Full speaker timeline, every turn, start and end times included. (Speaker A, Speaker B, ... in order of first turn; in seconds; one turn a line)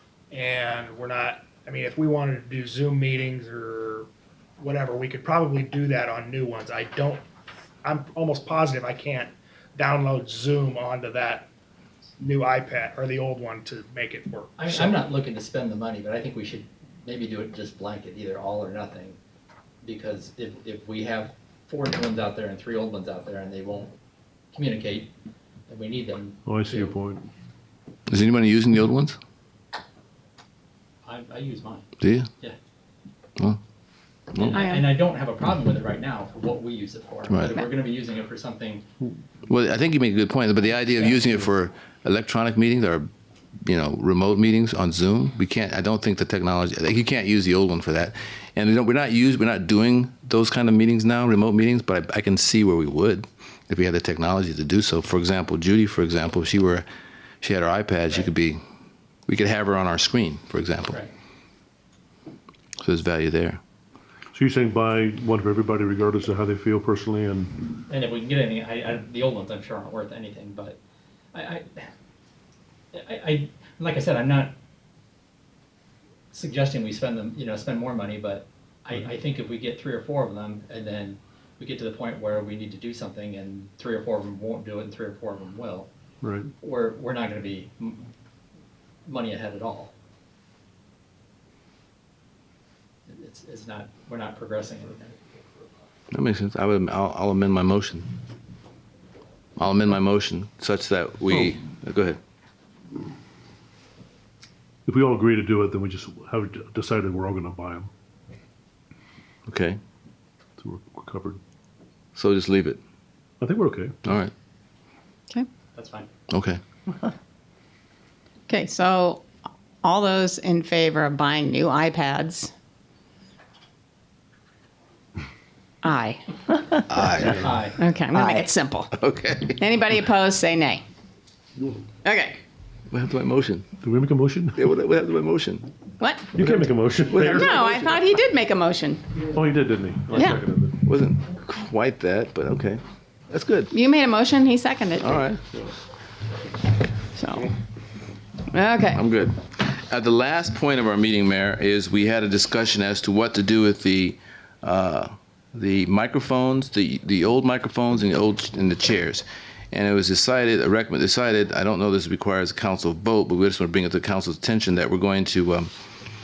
Speaker A: 0.3-7.2
Speaker A: 7.8-11.5
Speaker A: 12.2-15.1
Speaker B: 14.6-19.2
Speaker B: 19.8-23.9
Speaker B: 24.5-25.1
Speaker B: 25.7-26.9
Speaker C: 26.5-27.3
Speaker D: 28.1-29.2
Speaker B: 31.0-32.6
Speaker D: 32.0-32.3
Speaker D: 34.3-34.6
Speaker B: 34.4-38.9
Speaker E: 34.5-34.9
Speaker D: 37.3-37.6
Speaker D: 39.5-43.1
Speaker B: 41.0-41.2
Speaker D: 43.6-56.9
Speaker D: 57.4-58.6
Speaker D: 59.3-61.0
Speaker D: 62.8-63.6
Speaker C: 64.3-67.6
Speaker B: 67.9-70.8
Speaker B: 71.3-71.9
Speaker B: 72.9-74.5
Speaker B: 76.3-85.9
Speaker C: 86.2-86.5
Speaker B: 86.6-88.1
Speaker B: 89.1-89.9
Speaker B: 93.1-95.8
Speaker D: 96.1-98.1
Speaker D: 99.6-102.2
Speaker C: 104.9-107.9
Speaker D: 109.5-109.8
Speaker C: 110.6-111.4
Speaker D: 112.2-112.8
Speaker C: 113.4-114.0
Speaker D: 114.0-114.3
Speaker B: 115.8-116.1
Speaker D: 116.3-116.6
Speaker E: 118.5-119.3
Speaker E: 119.8-122.5
Speaker E: 125.8-126.2
Speaker D: 126.9-127.6
Speaker B: 127.2-127.8
Speaker E: 127.8-129.0
Speaker D: 128.9-129.6
Speaker E: 129.6-130.8
Speaker E: 132.0-132.4
Speaker D: 132.9-133.7
Speaker C: 133.8-134.6
Speaker D: 134.6-135.7
Speaker E: 136.0-136.3
Speaker C: 136.3-137.8
Speaker D: 136.4-137.8
Speaker E: 137.1-139.2
Speaker C: 139.3-140.8
Speaker E: 140.1-140.4
Speaker D: 140.8-143.7
Speaker E: 143.7-145.2
Speaker D: 145.0-145.4
Speaker E: 147.2-147.5
Speaker E: 148.5-149.0
Speaker D: 148.9-165.7